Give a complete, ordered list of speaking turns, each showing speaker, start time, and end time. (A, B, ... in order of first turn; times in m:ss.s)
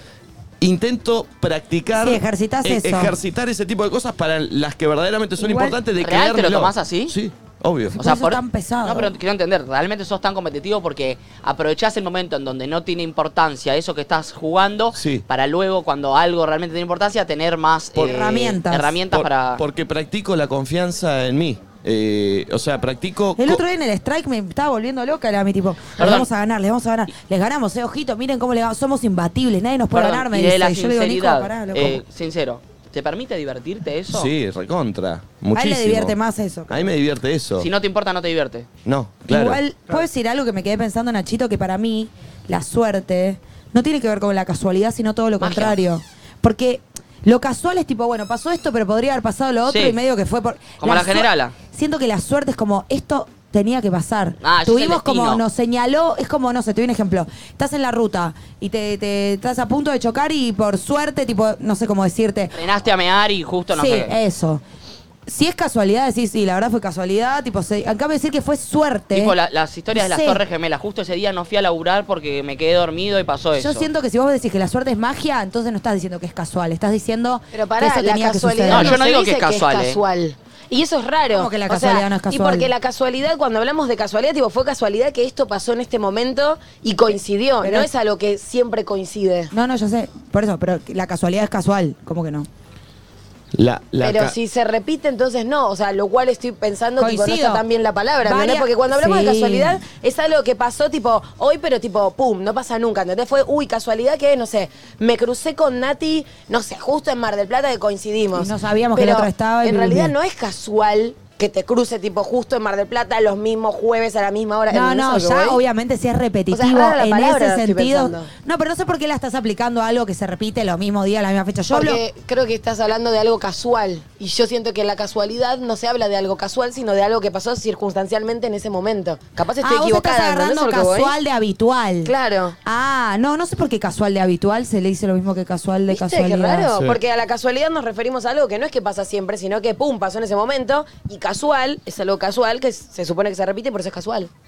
0:00.6-0:08.0 A
0:02.0-0:03.2 B
0:05.4-0:05.8 B
0:06.0-0:07.1 C
0:07.9-0:09.1 B
0:08.0-0:19.6 C
0:14.9-0:15.2 A
0:17.9-0:18.4 A
0:18.0-0:19.0 B
0:19.1-0:23.6 A
0:23.4-0:32.0 B
0:26.0-0:26.3 C
0:29.9-0:34.3 C
0:34.1-0:36.2 A
0:35.5-0:36.9 B
0:36.7-0:37.7 A
0:37.6-0:38.7 C
0:38.8-0:39.6 A
0:39.3-1:02.5 B
0:45.4-0:45.8 C
0:49.7-0:50.0 C
0:50.8-0:51.5 C
0:54.4-0:55.4 C
1:02.5-1:04.1 C
1:03.7-1:04.6 B
1:05.3-1:09.3 B
1:09.1-1:13.9 C
1:09.9-1:10.4 B
1:13.6-1:19.0 B
1:17.5-1:29.5 D
1:18.7-1:20.0 C
1:21.3-1:22.7 B
1:27.6-1:27.9 B
1:29.5-1:32.5 B
1:33.5-1:34.4 A
1:34.0-1:55.6 D
1:37.0-1:37.6 B
1:38.2-1:39.8 B
1:48.3-1:50.1 B
1:54.7-2:02.0 B
1:56.5-1:58.3 D
2:01.7-2:11.1 D
2:09.6-2:12.1 B
2:12.0-2:12.6 D
2:12.6-2:16.7 B
2:15.9-2:24.3 D